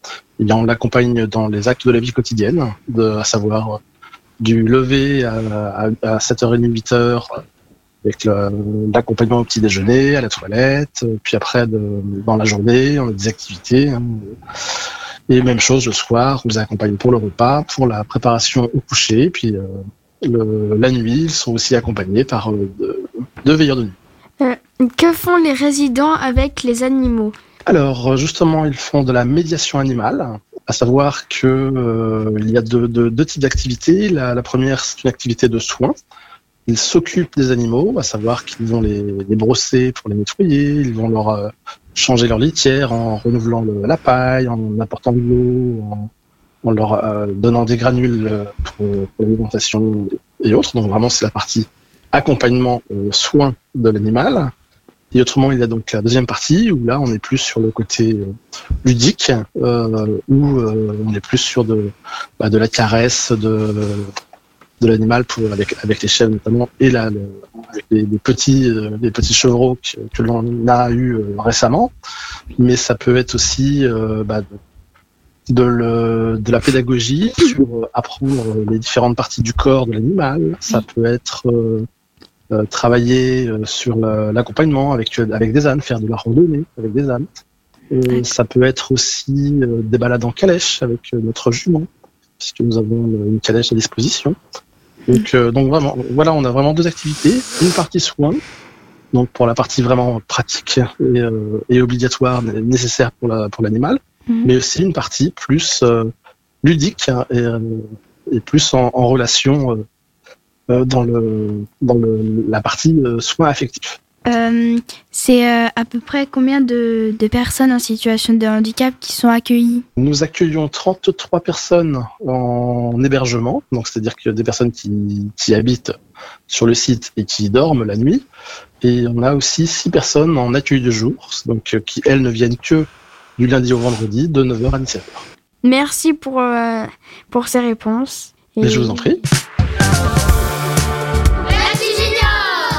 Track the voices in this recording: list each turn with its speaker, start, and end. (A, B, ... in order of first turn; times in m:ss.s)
0:00.4-0:03.8 A
0:04.4-0:07.4 A
0:08.0-0:14.4 A
0:15.3-0:19.6 A
0:20.2-0:24.0 A
0:24.4-0:27.4 B
0:27.6-0:36.0 A
0:36.6-0:46.1 A
0:46.6-0:54.5 A
0:55.1-1:04.1 A
1:04.8-1:11.9 A
1:12.6-1:14.5 A
1:15.5-1:21.9 A
1:22.5-1:27.3 A
1:27.9-1:31.9 A
1:32.4-1:34.4 A
1:35.1-1:38.4 A
1:39.1-1:46.1 A
1:46.6-1:49.8 A
1:50.7-1:54.0 A
1:54.3-1:59.8 C
2:00.0-2:05.9 A
2:06.5-2:08.2 A
2:08.8-2:15.2 A
2:15.6-2:19.1 B
2:18.6-2:19.2 A
2:21.6-2:22.3 B